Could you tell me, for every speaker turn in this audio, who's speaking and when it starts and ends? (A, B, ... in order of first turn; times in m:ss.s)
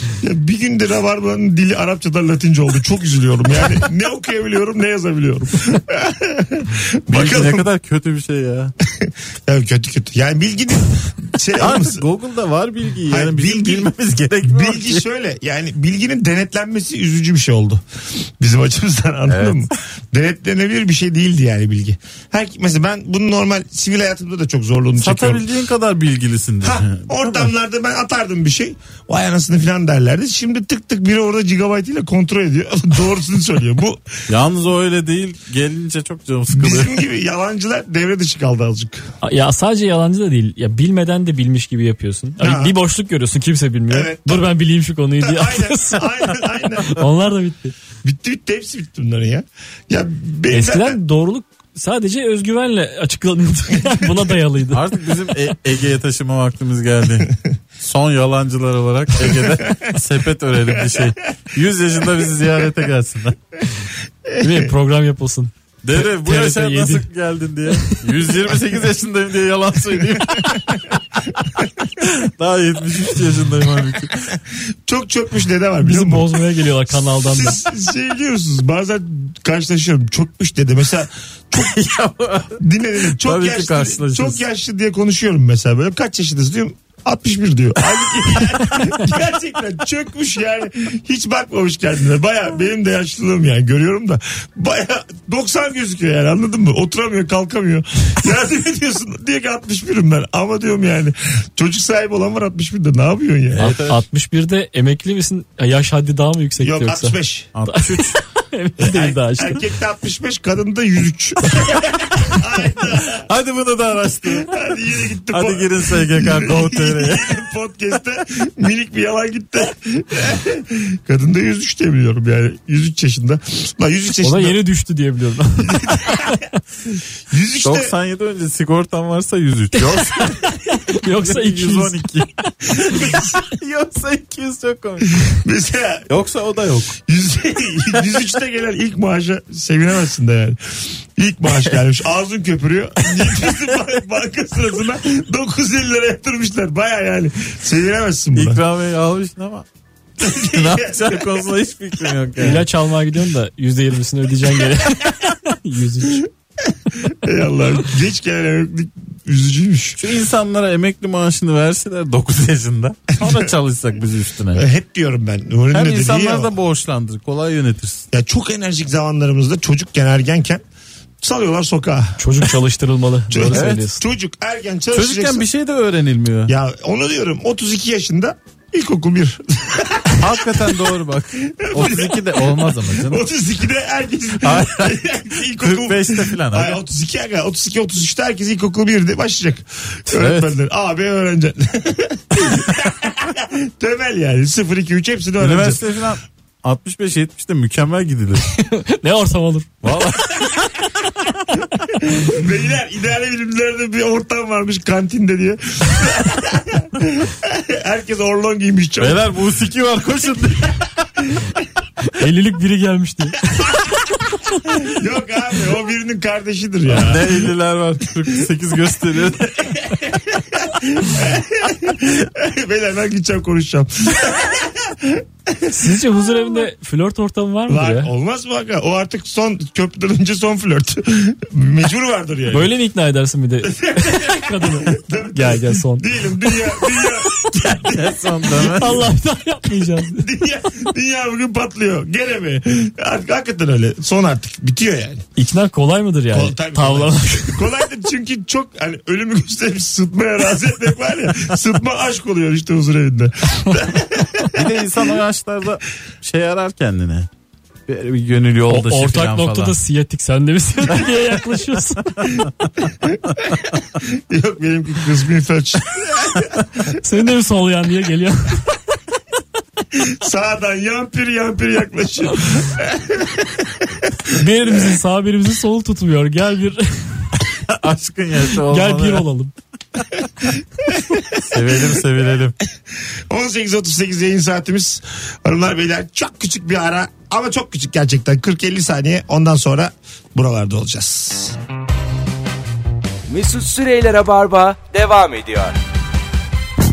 0:00.2-0:07.7 A
0:07.1-0:08.7 B
0:08.9-0:12.0 A
0:11.6-0:15.0 B
0:13.1-0:13.9 A
0:14.4-0:17.8 A
0:18.4-0:25.4 A
0:19.3-0:19.7 B
0:25.0-0:27.5 B
0:26.6-0:34.2 A
0:34.3-0:37.0 B
0:36.5-0:39.1 A
0:39.2-0:47.7 C
0:42.4-0:42.8 A
0:43.9-0:44.6 A
0:45.2-0:47.0 A
0:48.0-0:51.0 A
0:50.5-0:55.0 C
0:54.7-1:03.4 B
0:59.2-0:59.8 A
1:04.3-1:04.5 A
1:04.4-1:07.1 C
1:05.8-1:14.3 B
1:07.8-1:08.0 C
1:14.9-1:16.3 A
1:15.8-1:17.6 C
1:17.1-1:21.8 A
1:21.6-1:24.4 B
1:22.6-1:43.6 A
1:43.5-1:44.0 B
1:43.6-1:49.6 C
1:46.6-1:47.5 A
1:47.5-1:48.2 B
1:48.8-1:53.3 A
1:53.2-1:54.5 B
1:54.4-2:04.6 A
1:55.3-1:57.4 B
2:04.2-2:06.5 C
2:05.6-2:06.4 A
2:07.3-2:07.9 A
2:07.6-2:10.5 B
2:09.8-2:12.0 C
2:11.1-2:15.4 B
2:12.8-2:13.4 A
2:15.3-2:16.1 A
2:16.1-2:17.0 B
2:17.0-2:20.6 A
2:21.2-2:28.6 A
2:28.4-2:29.7 B
2:30.2-2:31.5 A
2:30.2-2:32.7 B
2:32.4-2:36.3 C
2:36.6-2:40.1 A
2:40.0-2:44.6 B
2:43.2-2:43.5 A
2:44.6-2:46.5 A
2:45.7-2:48.1 B
2:48.1-2:50.6 A
2:51.2-2:52.4 A
2:52.2-2:54.0 C
2:53.3-2:55.5 A
2:53.5-2:53.8 B
2:54.9-2:56.5 B
2:56.5-3:00.7 A
3:00.1-3:03.2 B
3:01.5-3:15.8 A
3:04.4-3:06.8 B
3:10.1-3:10.5 B
3:15.4-3:18.5 B
3:18.5-3:19.9 C
3:19.8-3:20.7 B
3:22.1-3:29.3 A
3:29.0-3:30.9 B
3:32.1-3:34.6 C
3:34.9-3:37.5 A
3:36.9-3:39.9 B
3:39.6-3:45.8 A
3:45.7-3:48.1 C
3:47.7-3:52.7 A
3:52.5-3:57.0 C
3:53.7-3:58.8 A
3:57.8-3:59.1 B
3:58.6-4:00.3 C
4:00.1-4:05.2 A
4:05.4-4:07.7 C
4:06.3-4:14.7 A
4:14.5-4:17.3 B
4:17.9-4:19.8 B
4:18.7-4:22.3 C
4:23.0-4:27.0 A
4:27.0-4:28.7 C
4:29.9-4:34.4 A
4:34.3-4:37.3 C
4:37.7-4:39.2 B
4:38.6-4:39.5 C
4:40.8-4:42.0 A
4:41.4-4:42.6 B
4:42.9-4:51.6 A
4:53.3-4:55.8 D